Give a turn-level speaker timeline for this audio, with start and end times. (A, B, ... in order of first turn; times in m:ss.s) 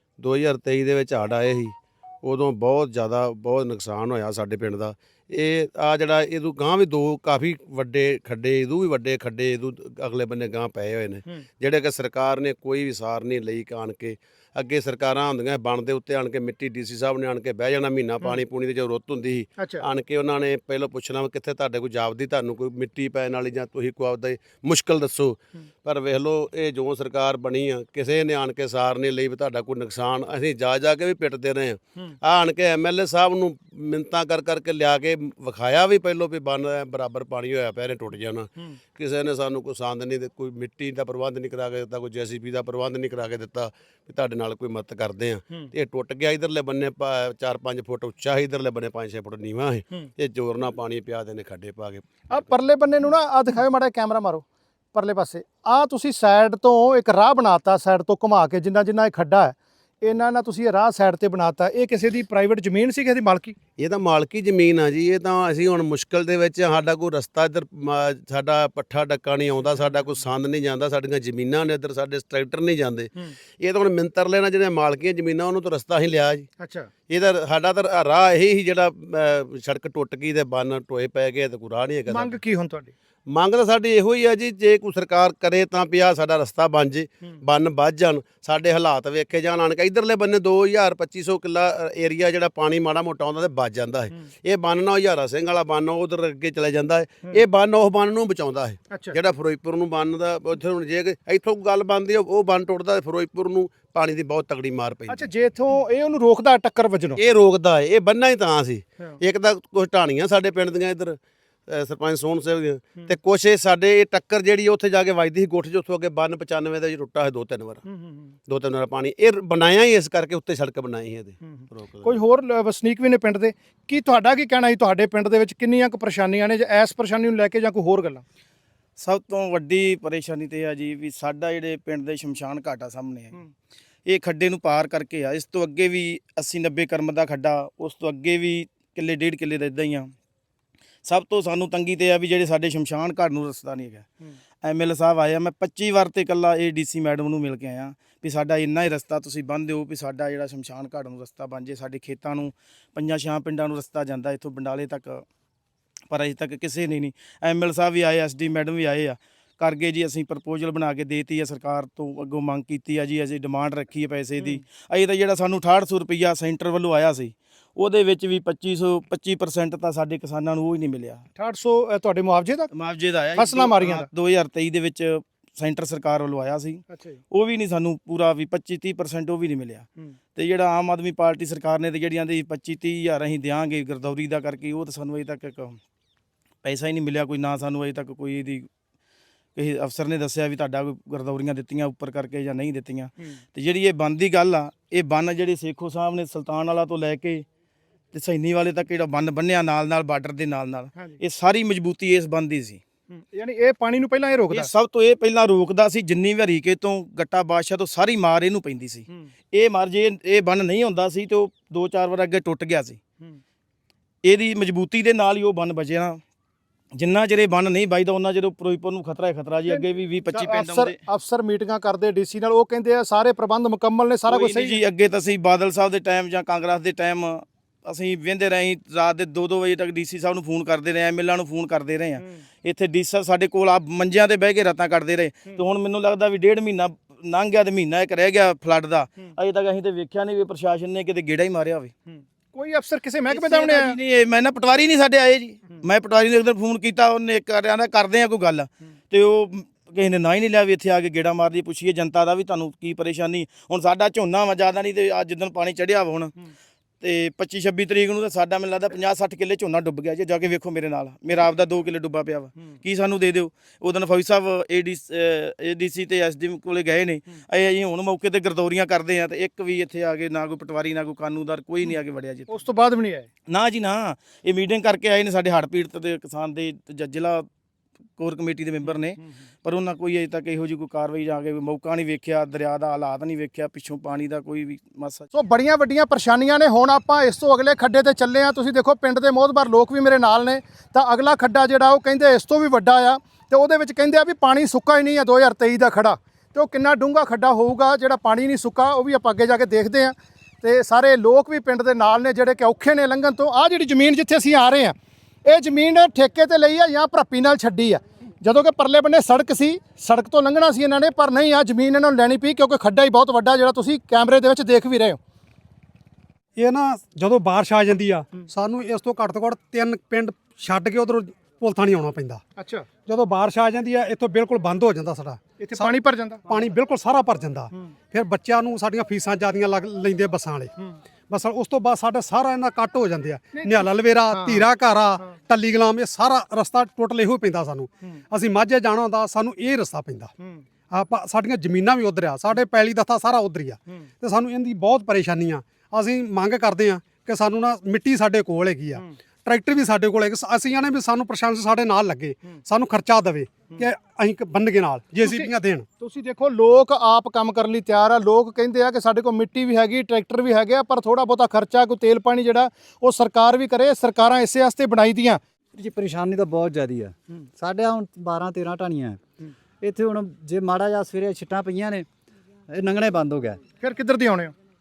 0:00.2-0:52.5 A
0:52.3-1:03.6 B
1:03.8-1:16.5 A
1:16.6-1:16.9 B
1:17.1-1:22.4 A
1:22.1-1:22.9 B
1:23.3-1:45.3 A
1:45.1-1:47.2 B
1:47.2-1:57.8 A
1:57.9-1:58.2 B
1:58.5-2:02.2 A
2:01.5-2:08.2 B
2:09.0-2:13.4 C
2:14.1-2:20.1 C
2:21.0-2:24.1 C
2:24.6-2:35.2 C
2:36.1-2:51.2 C
2:51.4-2:52.7 B
2:52.7-3:05.8 C
2:53.3-2:54.1 B
2:56.9-2:57.2 B
3:06.6-3:08.7 C
3:09.6-3:17.4 C
3:18.1-3:22.8 C
3:23.1-3:24.7 B
3:24.5-3:33.0 C
3:34.2-3:36.2 C
3:37.0-3:41.0 C
3:39.7-3:44.8 B
3:44.3-4:01.9 C
4:02.5-4:04.0 B
4:03.3-4:16.3 C
4:17.0-4:32.6 C
4:32.5-4:33.3 B
4:33.5-4:37.4 C
4:38.2-4:45.2 C
4:45.3-5:04.9 B
5:05.4-5:15.2 B
5:16.6-5:22.4 D
5:22.6-5:22.9 B
5:23.0-5:25.9 D
5:25.6-5:26.4 B
5:26.5-5:30.7 D
5:31.3-5:40.3 D
5:33.5-5:34.6 B
5:40.9-5:55.8 D
5:55.2-6:05.4 B
6:05.7-6:09.2 E
6:09.8-6:12.0 E
6:12.7-6:13.6 E
6:13.8-6:14.5 B